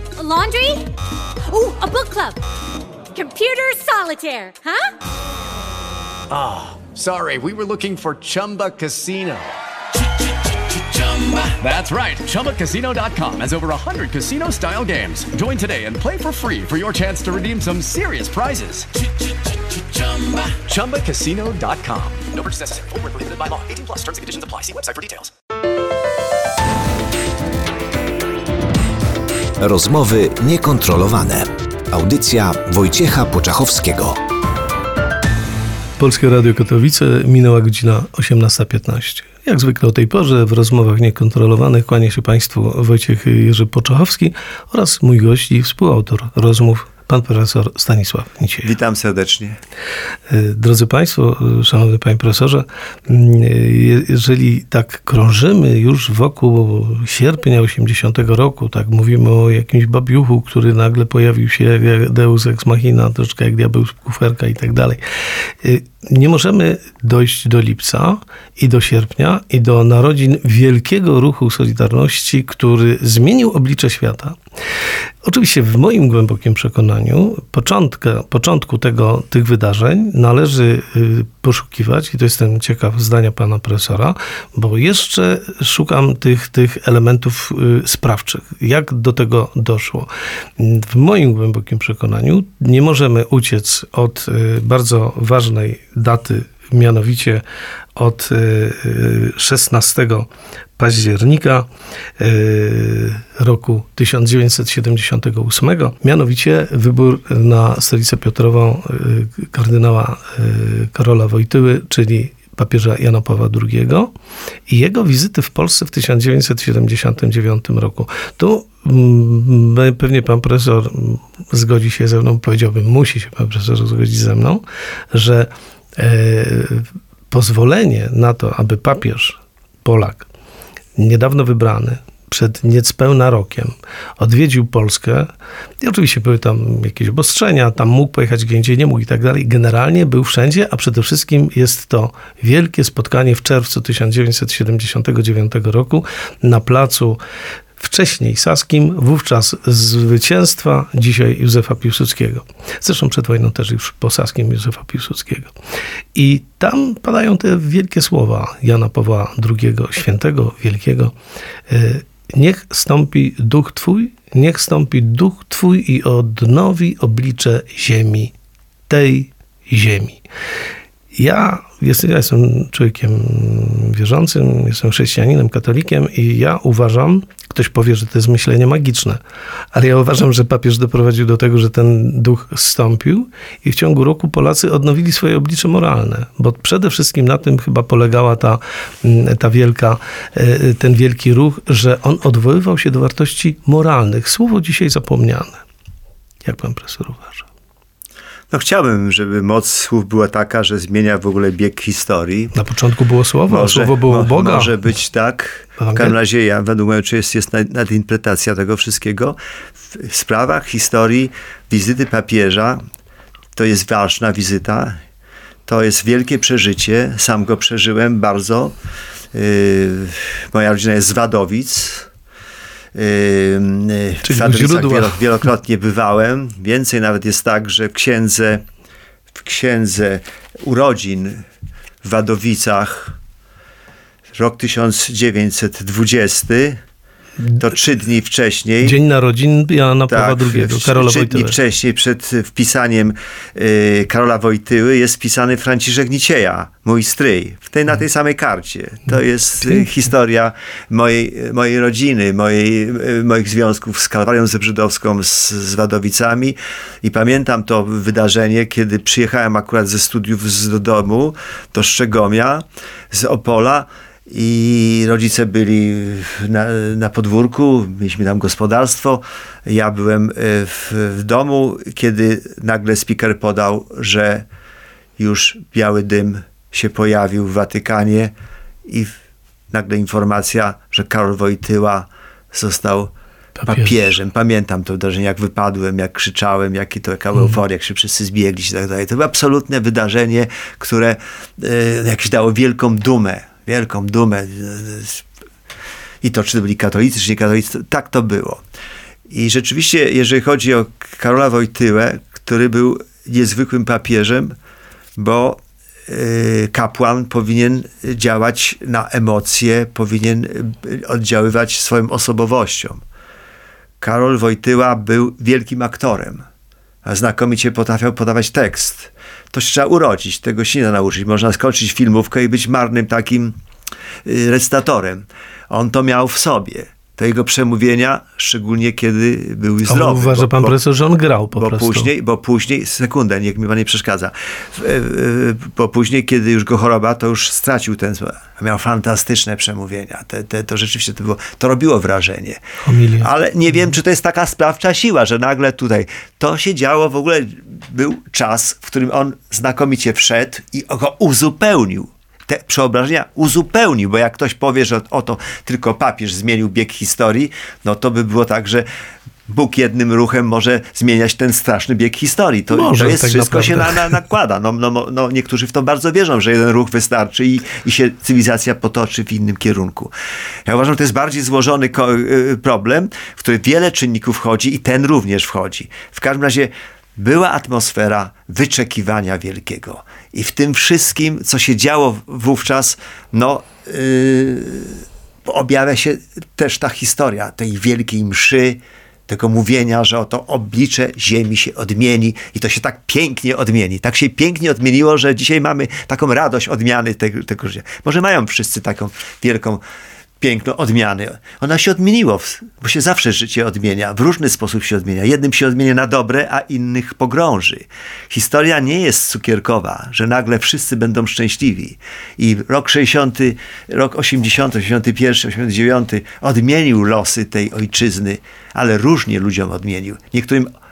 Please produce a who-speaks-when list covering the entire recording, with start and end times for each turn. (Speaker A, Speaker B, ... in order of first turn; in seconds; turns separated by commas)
Speaker A: 0.2-0.9, Speaker A: 1.5-2.4, Speaker A: 3.1-4.9, Speaker B: 6.3-25.3, Speaker C: 29.6-34.2, Speaker D: 36.0-48.7, Speaker E: 48.6-49.6, Speaker D: 50.3-65.0, Speaker D: 65.6-74.4, Speaker D: 75.2-97.4, Speaker D: 98.0-101.7, Speaker D: 102.2-114.1, Speaker D: 114.7-130.3, Speaker D: 131.0-147.2, Speaker D: 147.8-155.5, Speaker D: 156.2-161.1, Speaker D: 161.7-168.3, Speaker D: 168.9-170.2, Speaker D: 171.1-179.2, Speaker D: 179.7-195.6, Speaker D: 196.4-197.5, Speaker E: 198.5-202.5, Speaker D: 202.5-204.7, Speaker E: 203.5-209.4, Speaker D: 205.8-206.1, Speaker E: 209.9-212.8, Speaker E: 213.6-215.0, Speaker E: 215.7-218.7, Speaker E: 219.3-222.1, Speaker E: 222.9-228.6, Speaker D: 224.2-225.2, Speaker E: 229.4-231.4, Speaker E: 232.0-233.2, Speaker E: 234.3-236.8, Speaker E: 237.6-239.0, Speaker D: 238.8-241.6, Speaker E: 240.1-274.5, Speaker E: 275.2-278.3, Speaker E: 278.9-279.2, Speaker E: 279.7-283.1, Speaker D: 283.6-284.0, Speaker E: 283.7-295.2, Speaker E: 296.2-298.6, Speaker E: 299.3-304.6, Speaker E: 305.2-313.0, Speaker E: 314.0-316.4, Speaker E: 317.1-323.6, Speaker E: 324.2-330.8, Speaker D: 329.9-332.1, Speaker E: 331.6-342.6, Speaker D: 342.8-343.3, Speaker E: 343.2-358.9, Speaker E: 359.5-370.1, Speaker D: 362.7-364.2, Speaker E: 370.7-399.8, Speaker E: 400.4-420.7